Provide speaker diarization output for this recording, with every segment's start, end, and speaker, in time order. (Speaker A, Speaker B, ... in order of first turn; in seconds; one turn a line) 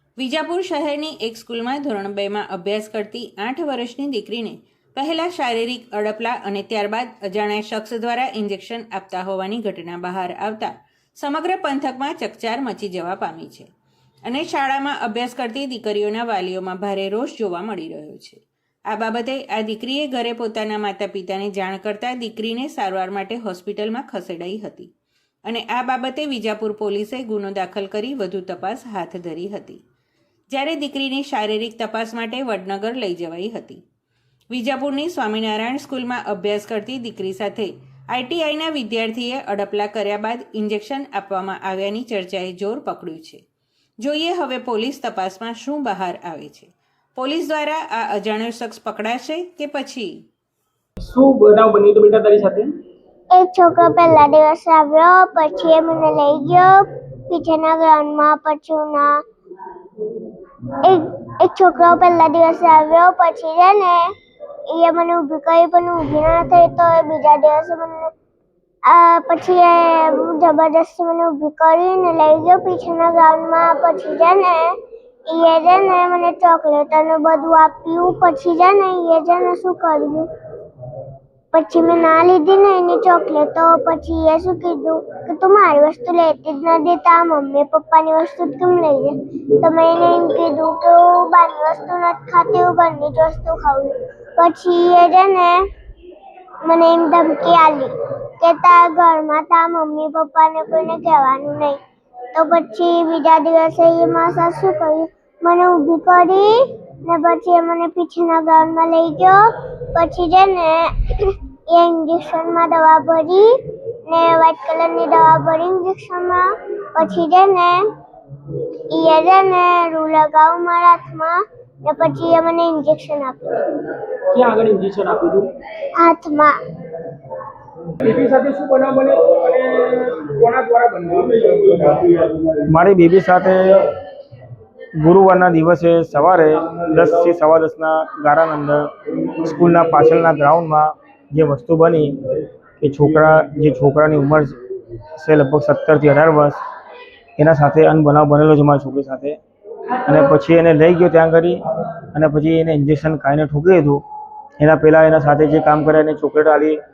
Speaker A: 0.2-13.7
Speaker A: 14.2-24.9
Speaker A: 25.4-29.8
Speaker A: 30.5-33.8
Speaker A: 34.5-43.4
Speaker A: 44.0-50.1
Speaker B: 51.0-52.7
Speaker C: 53.3-59.2
Speaker C: 60.8-64.1
Speaker C: 64.7-68.1
Speaker C: 68.8-74.8
Speaker C: 75.3-80.3
Speaker C: 81.5-95.7
Speaker C: 96.6-101.8
Speaker C: 102.3-113.5
Speaker C: 114.1-117.8
Speaker C: 118.9-123.7
Speaker B: 124.3-125.6
Speaker C: 126.0-126.5
Speaker B: 128.0-132.1
Speaker D: 132.4-134.0
Speaker D: 135.0-142.1
Speaker D: 142.8-144.6
Speaker D: 145.2-146.6
Speaker D: 147.4-149.4
Speaker D: 150.0-151.6
Speaker D: 152.1-154.0
Speaker D: 154.6-156.8